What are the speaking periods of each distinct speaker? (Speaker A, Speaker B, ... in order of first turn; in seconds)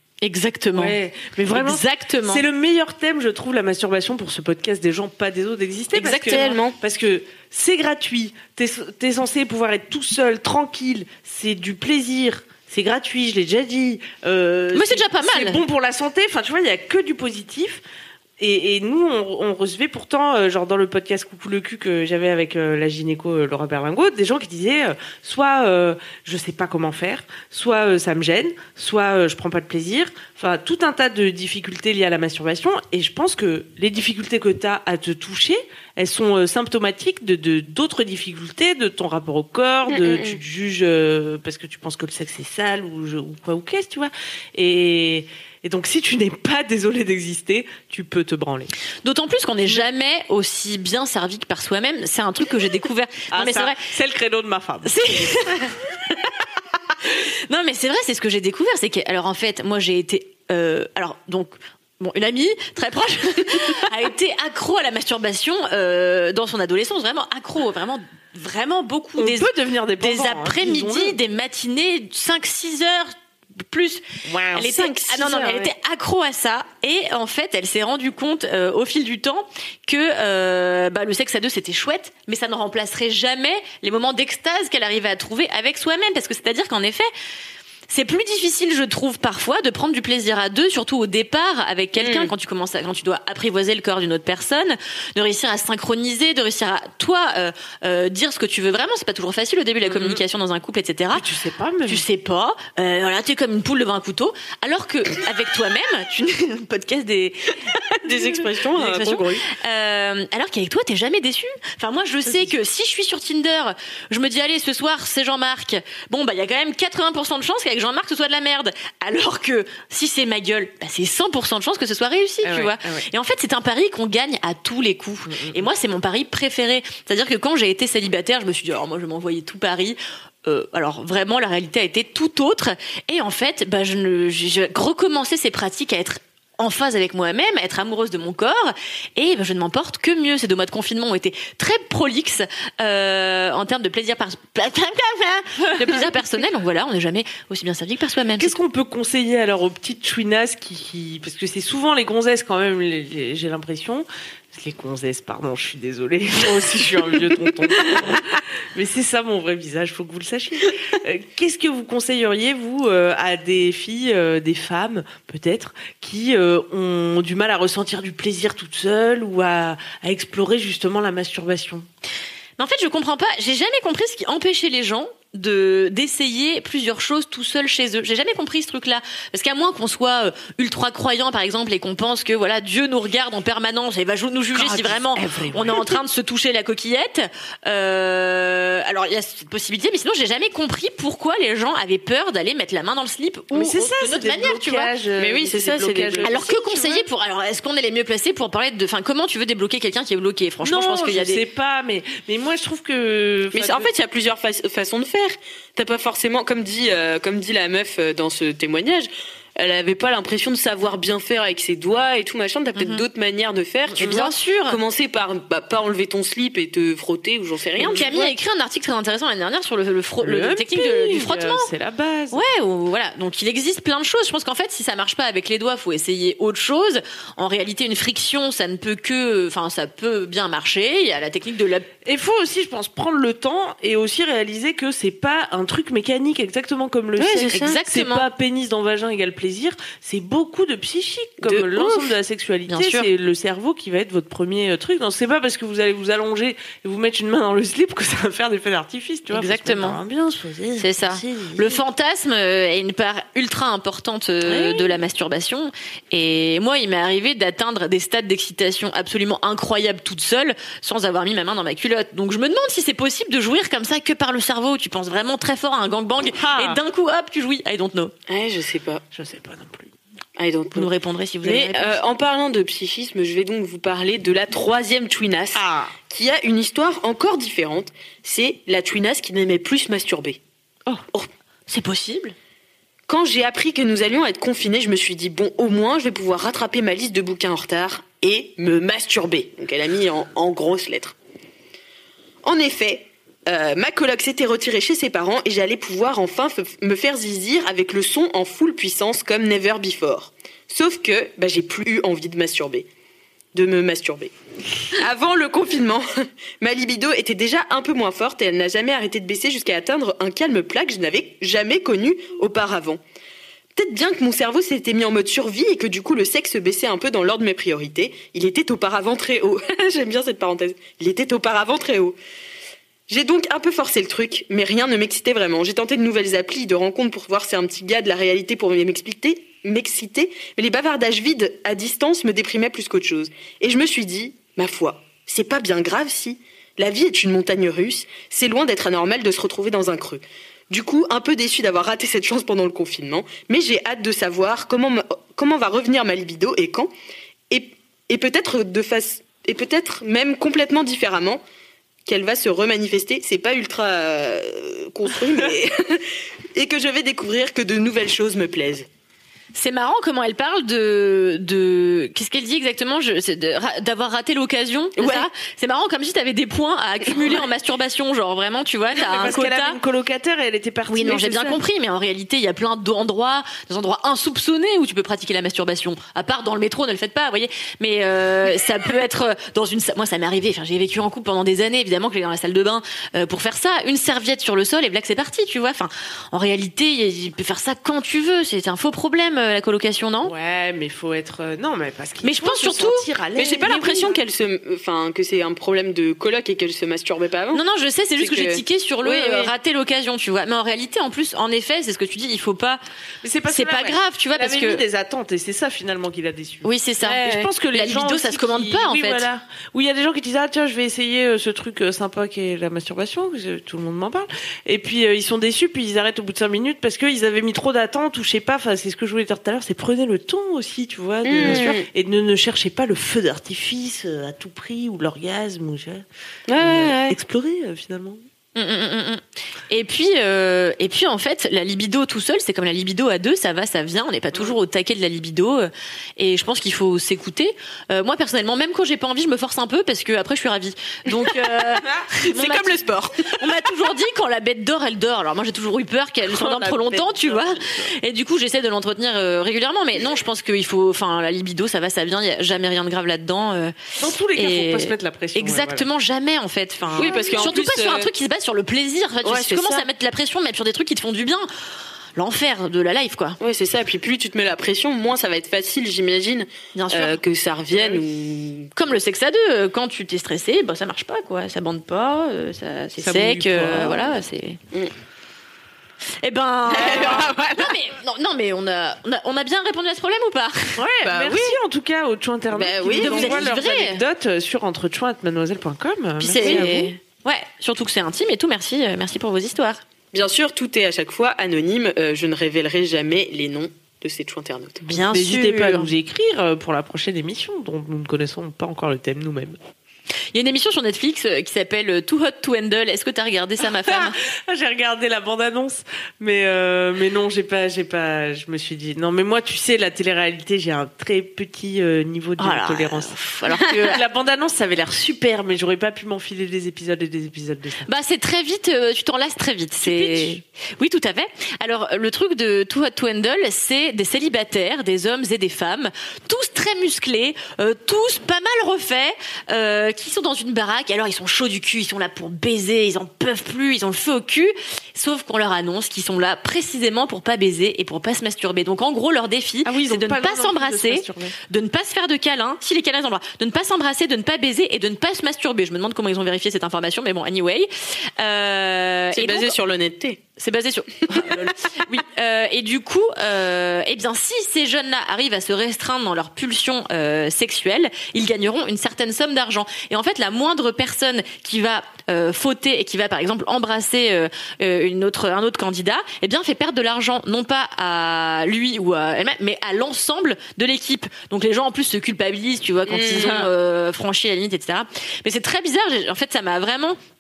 Speaker A: 0.2-2.4, 5.9-6.6, 14.7-15.6, 49.0-53.9, 54.9-55.8, 57.5-87.1, 87.9-101.3, 101.9-107.8, 108.8-148.6, 172.6-194.9, 196.2-201.4, 212.8-213.0, 213.9-214.8, 217.8-221.7, 222.3-231.9, 237.5-238.3, 242.7-243.1, 249.3-250.0, 250.8-268.1, 270.8-272.0, 281.7-282.4, 359.5-369.8, 370.9-390.3, 392.2-393.1, 397.5-402.8, 403.5-404.8, 406.6-409.3, 421.4-421.7, 428.6-461.5, 462.2-463.4, 466.8-467.2, 468.8-474.6, 476.2-480.8, 483.0-484.0, 486.2-489.8, 494.8-495.9, 500.3-504.2, 512.4-514.0, 517.9-549.5, 550.4-577.0
Speaker B: 0.7-17.8, 18.4-48.7, 53.3-55.6, 69.2-71.2, 74.2-74.7, 99.9-100.2, 101.1-102.0, 122.4-123.1, 125.3-125.6, 145.8-146.1, 148.4-171.9, 184.5-186.0, 193.5-196.6, 200.6-203.9, 220.2-222.4, 232.1-251.8, 254.5-254.9, 266.3-266.8, 269.1-269.9, 275.6-276.0, 368.9-371.6, 390.3-394.2, 403.2-426.1, 426.6-428.2, 446.3-447.9, 454.0-455.9, 456.9-457.4, 473.0-474.1, 476.9-477.2, 480.8-486.9, 495.0-499.6, 503.7-517.9, 519.8-520.4, 539.6-541.4, 573.2-573.5
Speaker C: 6.3-6.8, 39.9-40.4, 74.6-75.7, 92.0-92.3, 108.0-109.5, 195.2-197.0, 203.5-218.3, 237.2-237.8, 241.4-242.1, 268.3-269.0, 270.4-270.9, 271.4-280.4, 283.1-291.2, 292.4-302.9, 303.5-304.3, 304.9-306.1, 306.6-313.0, 313.8-322.2, 323.1-346.9, 347.5-351.4, 352.1-358.9, 365.0-365.3, 393.4-397.6, 398.2-399.4, 421.2-421.9, 426.5-427.2, 442.1-443.4, 456.9-458.1, 459.2-459.9, 463.4-468.7, 476.7-477.7, 481.0-481.6, 482.5-483.5, 486.4-486.7, 490.1-494.8, 549.1-550.2, 572.9-573.5